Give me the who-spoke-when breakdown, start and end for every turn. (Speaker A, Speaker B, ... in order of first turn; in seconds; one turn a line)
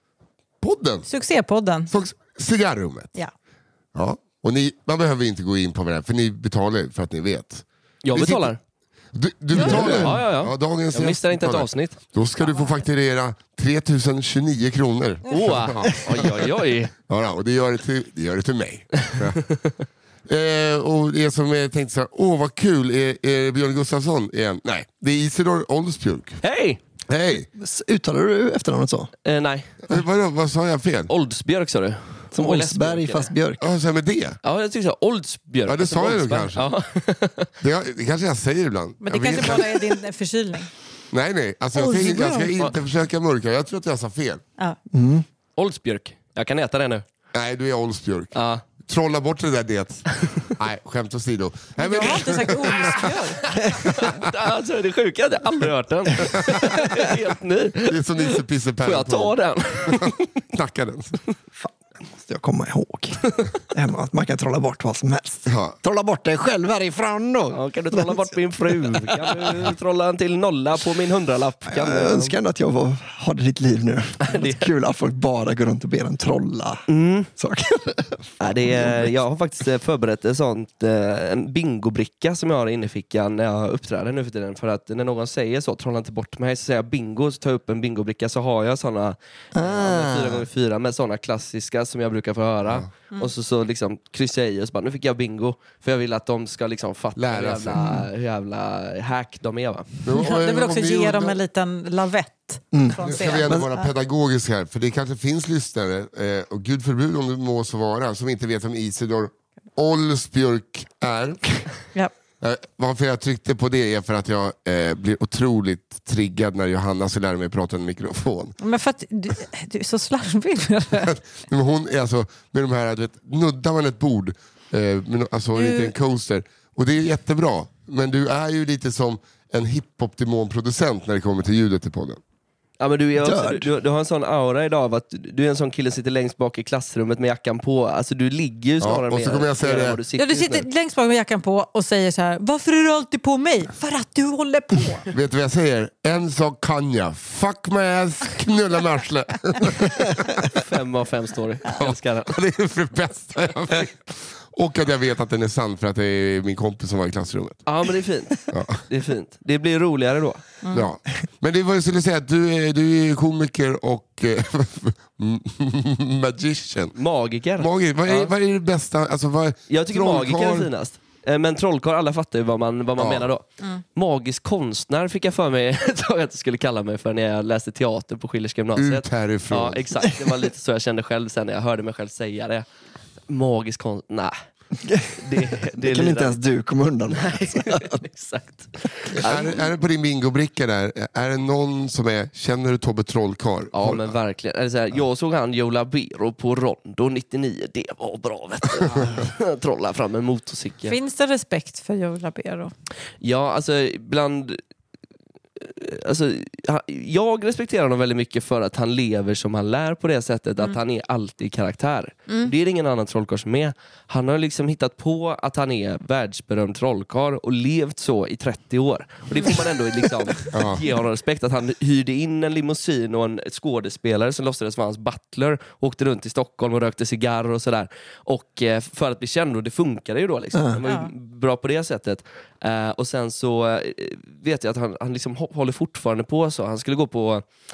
Speaker A: 0.6-1.1
Speaker B: 1.1-1.9
Speaker A: 1.9-3.1
Speaker A: 3.9-8.5
Speaker C: 8.0-8.6
Speaker A: 9.1-16.3
Speaker C: 9.6-12.0
Speaker D: 9.6-10.2
Speaker B: 12.4-12.8
Speaker B: 15.3-15.5
Speaker C: 15.3-16.9
Speaker A: 17.1-19.5
Speaker A: 20.3-26.4
Speaker C: 26.4-26.8
Speaker A: 27.1-27.5
Speaker D: 27.5-29.1
Speaker C: 29.2-29.8
Speaker A: 29.9-31.1
Speaker C: 31.1-33.3
Speaker D: 32.3-33.6
Speaker A: 33.6-34.4
Speaker C: 34.4-37.5
Speaker A: 35.7-36.7
Speaker A: 37.6-40.0
Speaker B: 39.0-40.7
Speaker A: 41.1-44.4
Speaker B: 41.8-42.6
Speaker D: 44.9-45.2
Speaker C: 45.6-47.0
Speaker A: 47.3-53.2
Speaker C: 48.3-48.7
Speaker B: 51.8-53.4
Speaker C: 52.9-60.2
Speaker A: 57.9-59.4
Speaker A: 59.9-61.2
Speaker D: 61.6-69.6
Speaker A: 65.5-65.8
Speaker C: 67.5-72.4
Speaker D: 71.7-79.2
Speaker C: 74.2-74.7
Speaker C: 76.9-77.3
Speaker C: 78.4-100.0
Speaker D: 89.5-90.5
Speaker A: 97.2-97.8
Speaker D: 97.8-98.1
Speaker A: 100.0-101.4
Speaker B: 100.2-103.9
Speaker D: 102.7-103.7
Speaker A: 103.0-111.7
Speaker A: 112.4-118.5
Speaker B: 118.6-121.2
Speaker A: 121.1-132.2
Speaker B: 125.5-125.9
Speaker C: 132.8-140.7
Speaker D: 133.2-133.7
Speaker A: 138.8-140.0
Speaker B: 140.1-145.1
Speaker A: 145.1-150.5
Speaker C: 150.5-152.4
Speaker A: 151.7-157.6
Speaker C: 157.7-160.6
Speaker A: 158.5-158.8
Speaker A: 160.7-167.0
Speaker C: 166.9-168.3
Speaker A: 167.6-170.7
Speaker C: 169.7-182.7
Speaker A: 173.0-173.3
Speaker A: 178.8-179.8
Speaker C: 183.3-184.3
Speaker D: 184.8-187.9
Speaker C: 185.2-186.4
Speaker C: 187.1-189.7
Speaker A: 189.2-194.1
Speaker C: 193.7-201.0
Speaker B: 200.8-202.7
Speaker C: 203.2-204.6
Speaker C: 205.6-237.4
Speaker A: 220.5-220.8
Speaker D: 230.5-230.8
Speaker B: 230.8-231.1